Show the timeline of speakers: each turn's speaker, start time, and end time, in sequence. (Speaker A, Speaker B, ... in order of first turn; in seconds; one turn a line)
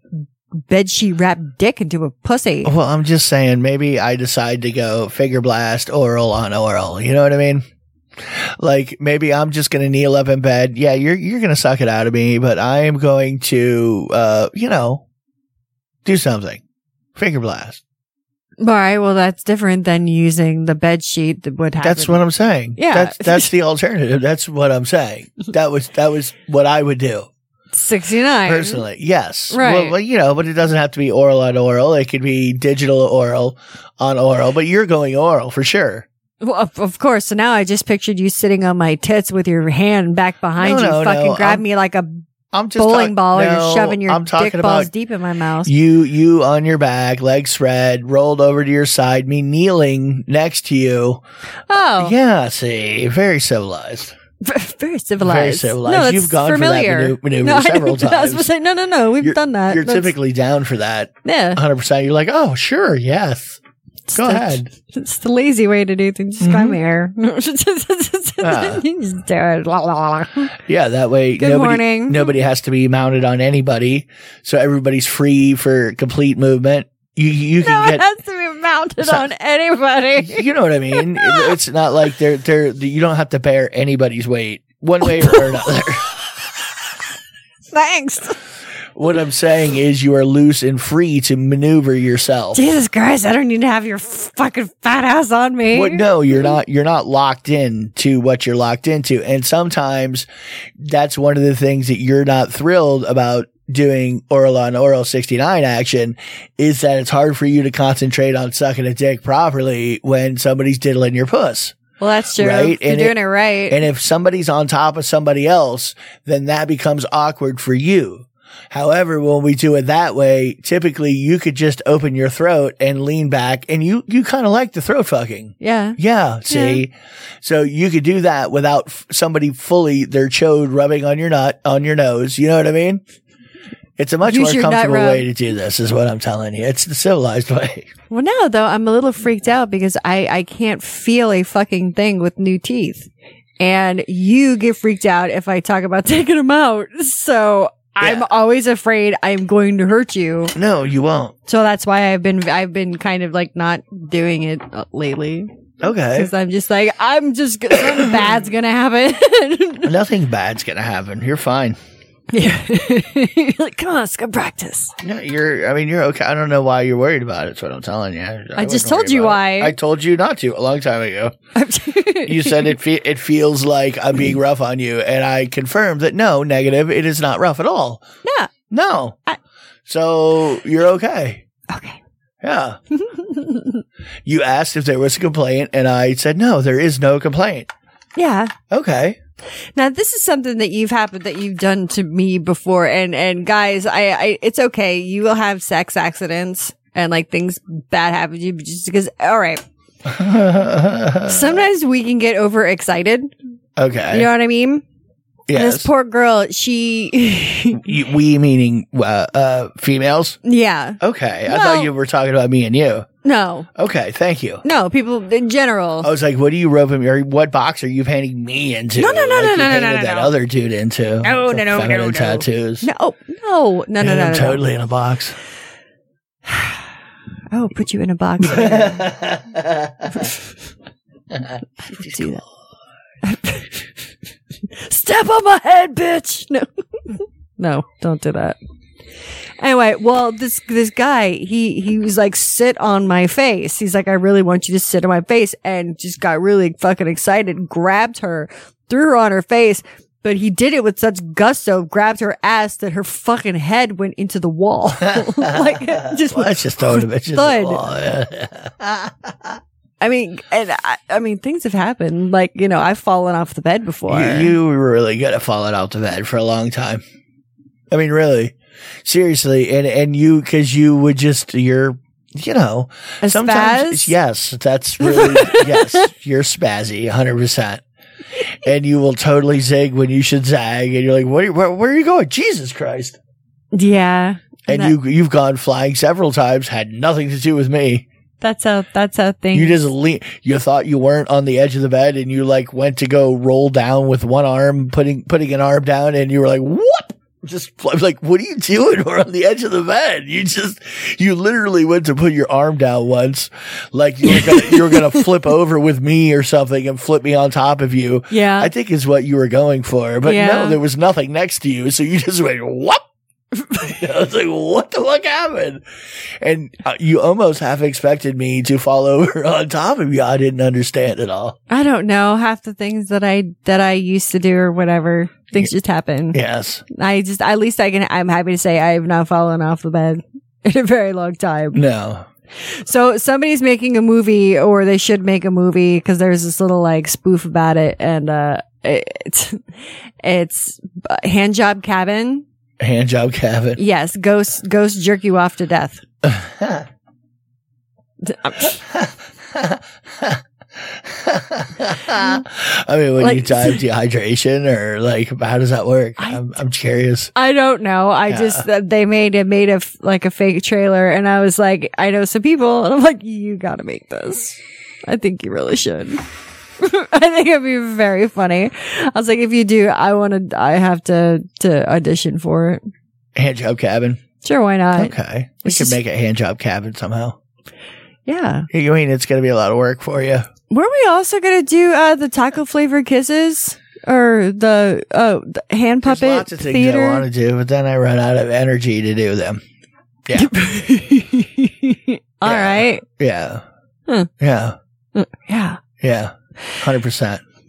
Speaker A: 0.6-2.7
Speaker B: 2.6-7.6
Speaker B: 8.3-15.0
Speaker B: 16.1-16.6
Speaker B: 17.2-17.8
Speaker A: 18.6-22.2
Speaker B: 21.8-27.3
Speaker A: 22.8-23.5
Speaker A: 27.7-28.8
Speaker B: 28.5-36.1
Speaker A: 29.5-29.9
Speaker A: 36.4-42.2
Speaker B: 40.6-41.6
Speaker B: 42.5-44.9
Speaker A: 42.8-45.7
Speaker B: 45.6-51.2
Speaker A: 51.7-52.1
Speaker B: 51.7-54.1
Speaker A: 54.4-60.1
Speaker B: 55.2-58.5
Speaker B: 59.2-63.6
Speaker A: 61.2-61.6
Speaker A: 64.1-70.5
Speaker B: 64.2-64.7
Speaker B: 66.4-66.8
Speaker B: 68.4-68.8
Speaker B: 70.7-78.0
Speaker A: 71.4-72.3
Speaker A: 77.6-81.5
Speaker B: 79.0-79.3
Speaker B: 80.2-86.0
Speaker A: 85.1-85.4
Speaker A: 87.7-88.4
Speaker B: 89.0-92.6
Speaker A: 92.5-96.0
Speaker B: 95.7-100.3
Speaker B: 100.8-111.8
Speaker A: 112.0-113.8
Speaker B: 112.4-113.2
Speaker B: 113.7-126.9
Speaker A: 125.6-126.8
Speaker B: 127.4-133.0
Speaker B: 134.0-137.9
Speaker A: 134.2-135.3
Speaker A: 138.1-143.1
Speaker A: 143.6-150.5
Speaker B: 148.0-148.3
Speaker B: 150.6-151.3
Speaker A: 151.5-155.5
Speaker B: 155.8-156.3
Speaker A: 156.2-159.9
Speaker B: 159.8-161.8
Speaker A: 162.3-164.9
Speaker B: 165.0-171.3
Speaker A: 168.6-169.8
Speaker A: 171.6-172.7
Speaker B: 172.3-178.0
Speaker A: 178.2-178.5
Speaker B: 178.7-179.2
Speaker B: 179.9-181.4
Speaker A: 181.7-182.0
Speaker B: 182.4-182.8
Speaker A: 182.9-183.8
Speaker B: 184.3-187.7
Speaker A: 188.2-188.5
Speaker B: 188.7-189.2
Speaker A: 189.8-199.6
Speaker B: 200.1-201.6
Speaker A: 201.3-203.3
Speaker B: 203.8-204.3
Speaker A: 204.1-204.8
Speaker B: 205.5-205.9
Speaker A: 205.6-208.0
Speaker B: 207.7-210.4
Speaker A: 210.4-211.9
Speaker B: 211.0-213.1
Speaker A: 213.2-213.7
Speaker B: 213.8-214.6
Speaker A: 214.6-216.1
Speaker B: 216.0-222.9
Speaker A: 219.0-220.3
Speaker A: 221.2-224.6
Speaker B: 224.0-225.4
Speaker A: 226.5-226.8
Speaker A: 227.5-229.1
Speaker B: 228.5-230.1
Speaker A: 230.1-230.4
Speaker A: 231.9-232.4
Speaker A: 233.2-233.9
Speaker A: 234.7-238.6
Speaker A: 239.6-257.8
Speaker B: 255.1-259.5
Speaker A: 260.0-264.6
Speaker B: 264.1-267.0
Speaker B: 267.9-277.8
Speaker A: 273.2-274.1
Speaker A: 275.0-276.1
Speaker B: 278.6-283.2
Speaker A: 283.7-284.9
Speaker B: 284.7-288.1
Speaker A: 288.4-289.9
Speaker B: 289.5-313.0
Speaker A: 304.5-305.0
Speaker A: 308.3-308.7
Speaker A: 310.2-310.8
Speaker B: 313.8-315.8
Speaker B: 316.4-321.6
Speaker A: 321.7-326.4
Speaker B: 326.3-326.8
Speaker A: 326.9-331.8
Speaker B: 331.7-332.3
Speaker A: 332.6-339.6
Speaker A: 340.2-342.4
Speaker B: 342.8-343.8
Speaker A: 343.8-346.0
Speaker B: 346.2-346.9
Speaker A: 348.2-348.8
Speaker B: 348.9-357.3
Speaker A: 352.1-352.4
Speaker A: 353.2-353.8
Speaker A: 356.2-356.4
Speaker A: 357.4-366.2
Speaker B: 358.3-358.6
Speaker A: 366.8-372.8
Speaker B: 373.4-374.2
Speaker A: 374.4-376.0
Speaker B: 375.0-377.4
Speaker A: 378.3-378.7
Speaker B: 378.7-380.5
Speaker A: 380.7-387.2
Speaker B: 386.1-389.6
Speaker B: 390.3-390.5
Speaker A: 390.4-393.1
Speaker B: 392.4-393.6
Speaker B: 394.4-394.8
Speaker A: 395.1-395.8
Speaker B: 396.0-397.4